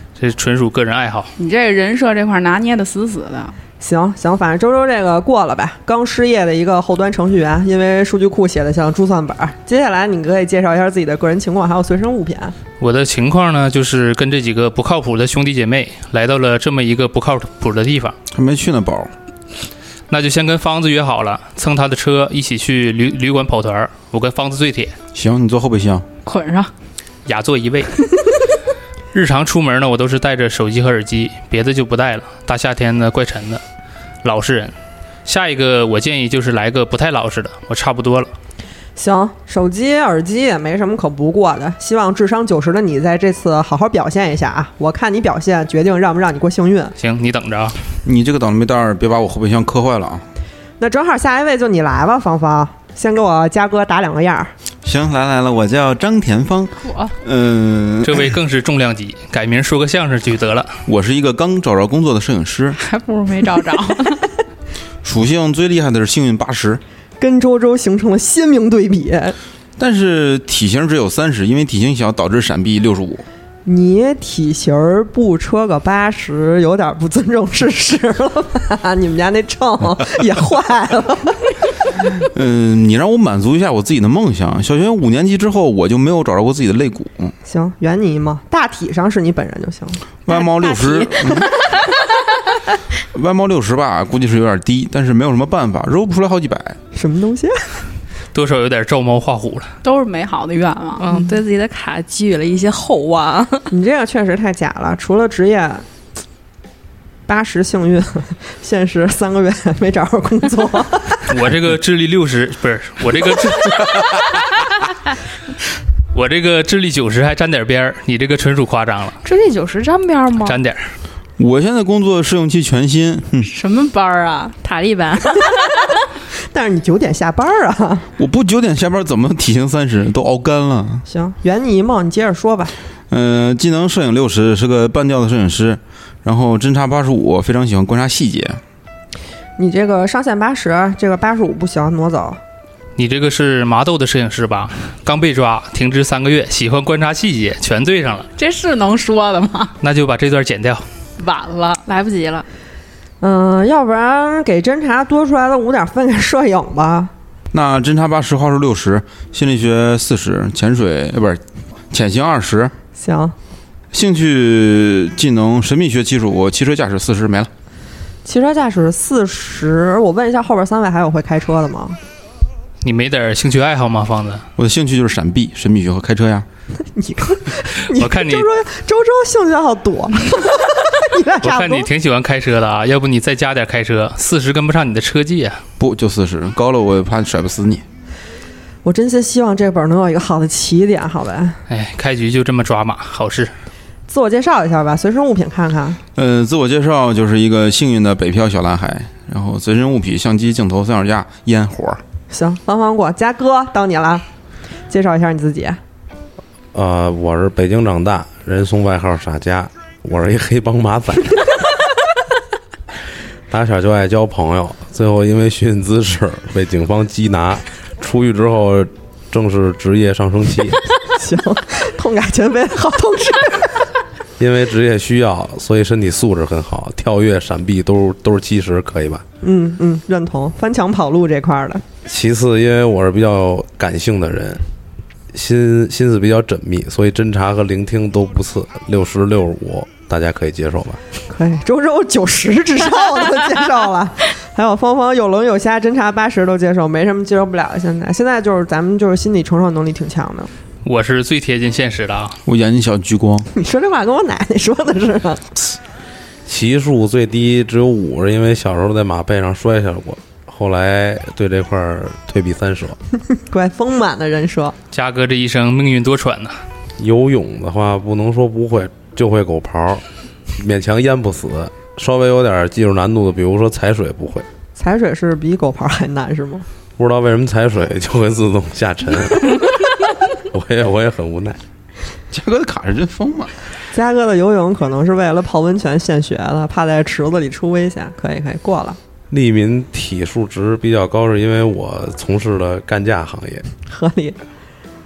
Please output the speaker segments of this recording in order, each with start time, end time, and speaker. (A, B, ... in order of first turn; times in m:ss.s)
0:00.2-0:01.3 A
0:01.4-0:03.6 B
0:03.8-0:12.5 C
0:12.8-0:18.2 A
0:18.3-0:19.1 D
0:20.1-0:24.9 A
0:25.1-0:26.0 D
0:26.2-0:26.7 B
0:27.2-0:28.0 A
0:29.1-0:33.6 A
0:34.2-0:34.7 A
0:35.2-0:38.3 A
0:39.0-0:46.9 C
0:47.0-0:47.8 A
0:48.0-0:50.2 D
0:50.8-0:54.5 C
0:54.8-0:58.3 D
0:56.8-0:57.1 B
0:58.0-1:00.8 A
1:00.8-1:02.8 D
1:02.8-1:04.3 B
1:05.0-1:06.8 D
1:07.2-1:09.4 C
1:09.8-1:13.2 D
1:13.6-1:21.5 C
1:22.3-1:27.3 D
1:27.4-1:30.0 C
1:30.3-1:31.5 D
1:30.3-1:31.5 E
1:33.1-1:36.8 D
1:36.9-1:37.7 C
1:38.3-1:39.7 A
1:39.8-1:41.0 B
1:41.0-1:43.7 E
1:43.7-1:45.8 C
1:47.3-1:51.2 C
1:51.3-1:54.8 A
1:56.1-1:59.2 A
1:59.2-2:00.6 E
2:00.4-2:00.9 A
2:01.4-2:03.5 D
2:03.5-2:04.5 B
2:04.6-2:05.5 E
2:06.5-2:08.1 C
2:08.2-2:11.0 D
2:11.1-2:12.7 C
2:13.1-2:18.6 D
2:19.6-2:22.4 C
2:23.0-2:28.3 A
2:28.4-2:29.7 B
2:29.8-2:30.8 A
2:31.2-2:31.8 B
2:31.8-2:32.4 E
2:33.2-2:37.1 C
2:37.5-2:42.7 D
2:43.0-2:43.3 C
2:43.9-2:47.5 D
2:48.2-2:52.0 C
2:52.8-2:54.4 A
2:54.6-2:56.4 D
2:56.9-3:01.9 C
2:57.9-2:58.5 A
3:01.4-3:05.6 A
3:05.8-3:07.8 D
3:08.8-3:11.6 C
3:11.7-3:13.5 A
3:14.1-3:16.0 C
3:16.2-3:22.0 D
3:22.3-3:24.2 C
3:24.9-3:25.8 C
3:26.7-3:31.5 F
3:33.5-3:40.8 F
3:41.1-3:43.9 C
3:44.4-3:49.2 F
3:49.4-3:51.8 C
3:52.0-3:54.6 F
3:55.3-4:01.0 F
4:01.3-4:10.5 C
4:10.8-4:12.4 A
4:12.4-4:13.5 D
4:13.5-4:15.6 C
4:16.4-4:23.0 F
4:23.5-4:24.7 C
4:24.9-4:26.6 A
4:27.0-4:30.0 F
4:30.6-4:34.4 F
4:34.8-4:36.6 C
4:37.0-4:41.6 F
4:42.3-4:43.5 D
4:43.9-4:49.0 C
4:49.3-4:53.6 F
4:53.9-4:54.4 C